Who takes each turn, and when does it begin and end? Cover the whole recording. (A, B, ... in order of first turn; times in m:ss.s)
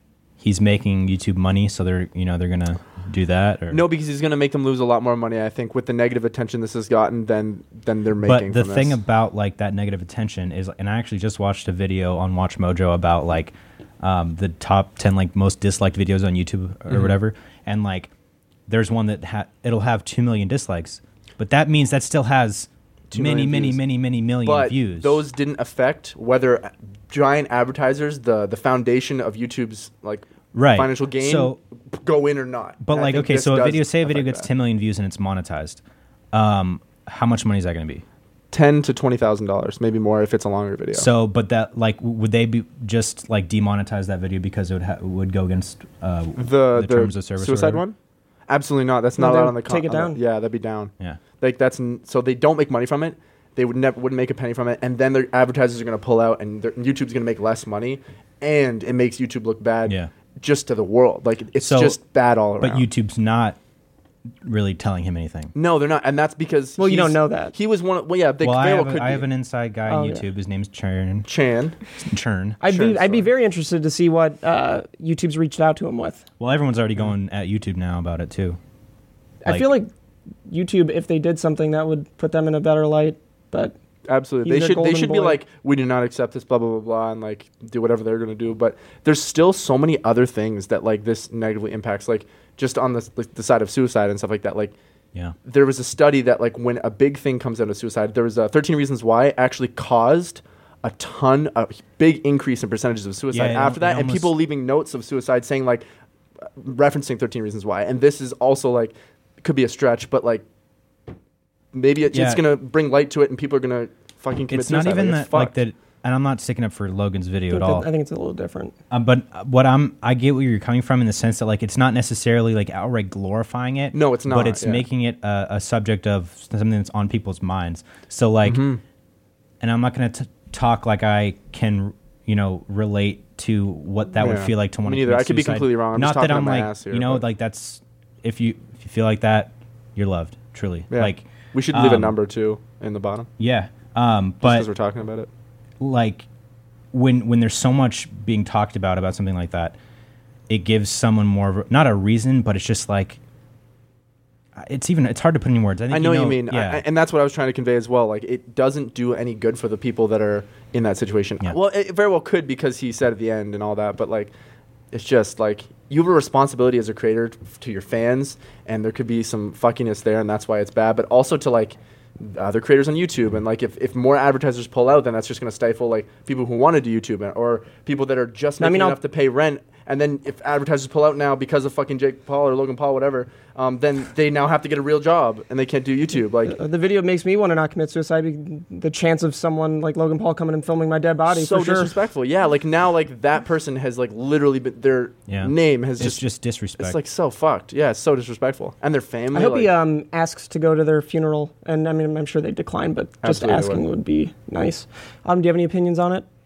0:00.4-0:03.9 A
0:03.7-0:09.0 B
0:08.2-0:18.1 A
0:16.9-0:17.2 B
0:18.7-0:25.2 A
0:23.1-0:23.8 B
0:24.4-0:34.5 B
0:30.5-0:31.6 A
0:32.8-0:35.8 A
0:36.3-0:38.0 A
0:38.5-0:41.1 B
0:40.9-0:47.8 A
0:46.4-0:48.0 B
0:48.5-1:02.9 B
0:49.2-0:50.2 C
1:01.6-1:02.0 A
1:02.6-1:03.6 A
1:04.4-1:05.5 A
1:05.6-1:09.3 B
1:06.8-1:07.6 C
1:08.4-1:11.3 A
1:09.9-1:10.3 C
1:11.3-1:11.8 B
1:12.0-1:12.6 A
1:12.6-1:16.2 C
1:12.7-1:13.3 B
1:16.4-1:18.6 A
1:19.4-1:19.9 C
1:20.5-1:23.8 C
1:24.1-1:34.8 B
1:24.4-1:25.4 C
1:35.4-1:45.8 B
1:43.3-1:44.3 A
1:46.4-1:50.4 B
1:51.7-1:55.6 B
1:52.1-1:52.4 A
1:54.5-1:57.9 A
1:57.5-1:58.8 C
1:58.9-2:08.7 A
2:03.9-2:04.8 B
2:08.4-2:08.8 B
2:09.6-2:22.2 A
2:14.2-2:17.2 B
2:20.9-2:23.3 B
2:23.4-2:24.7 A
2:24.4-2:25.3 B
2:25.8-2:26.3 A
2:26.9-2:29.8 A
2:30.5-2:33.2 A
2:34.6-2:36.8 A
2:35.9-2:44.3 B
2:44.9-3:06.6 B
2:58.6-2:59.0 C
3:06.5-3:11.9 C
3:11.3-3:16.2 B
3:15.3-3:17.0 A
3:16.8-3:19.7 B
3:19.3-3:26.3 C
3:23.2-3:23.8 B